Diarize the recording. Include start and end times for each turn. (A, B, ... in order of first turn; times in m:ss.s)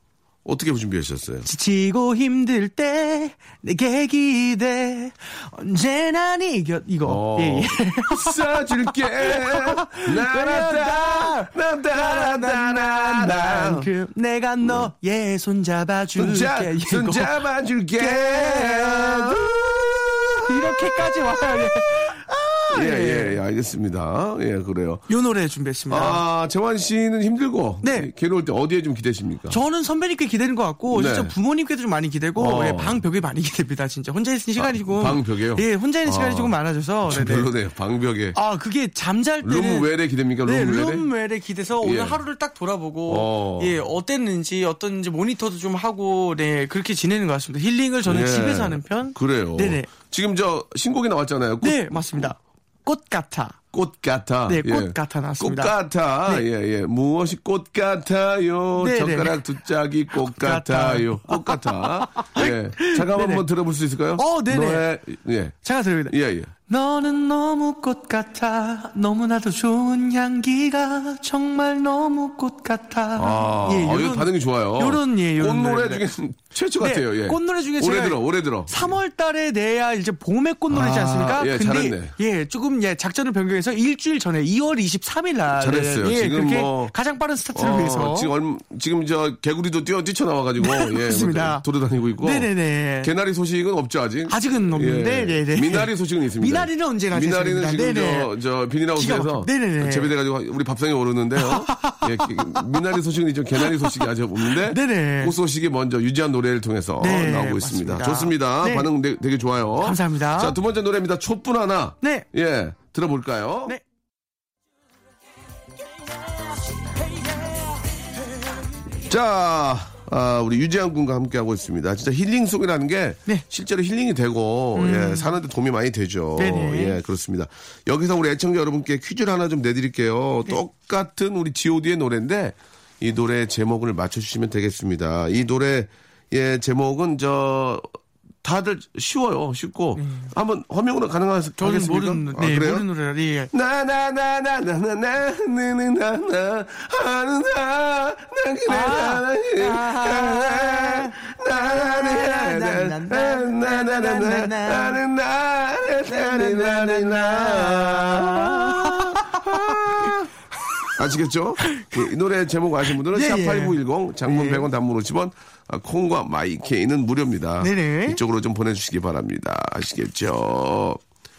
0:00.4-0:01.5 A
0:01.5-0:17.4 B
0:07.0-0:13.9 A
0:14.6-0:14.9 A
0:16.2-0:21.3 A
0:18.0-0:19.4 B
0:20.5-0:23.4 B
0:22.7-0:25.1 A
0:25.1-0:26.2 B
0:25.9-0:29.6 A
0:27.8-0:28.1 B
0:29.5-0:37.5 B
0:30.9-0:31.3 A
0:32.4-0:33.0 A
0:34.6-0:36.6 A
0:37.1-0:38.4 A
0:38.3-0:39.9 B
0:39.4-0:41.1 A
0:40.4-0:49.9 B
0:41.8-0:42.2 A
0:43.1-0:43.8 A
0:48.0-0:52.3 A
0:51.6-0:53.6 B
0:53.7-1:05.6 A
0:54.5-0:55.7 B
0:58.8-0:59.4 B
1:00.2-1:03.4 B
1:04.2-1:04.9 B
1:05.6-1:06.2 B
1:06.1-1:06.5 A
1:06.7-1:16.1 B
1:13.2-1:18.9 A
1:16.8-1:28.3 B
1:20.7-1:22.1 A
1:25.6-1:26.9 A
1:27.5-1:32.5 A
1:30.6-1:31.6 B
1:32.2-1:33.1 B
1:33.0-1:53.8 A
1:34.3-1:38.3 B
1:39.0-1:40.1 B
1:41.4-1:42.8 B
1:43.6-1:45.4 B
1:47.0-1:48.9 B
1:49.8-1:50.6 B
1:59.0-2:17.9 A
2:04.7-2:05.4 B
2:06.4-2:07.0 B
2:18.4-2:22.9 A
2:20.0-2:20.3 B
2:21.6-2:23.5 B
2:23.5-2:40.3 A
2:28.7-2:35.0 B
2:36.0-2:40.2 B
2:41.0-2:51.0 A
2:41.6-2:42.0 B
2:43.1-2:44.7 B
2:47.6-2:48.2 B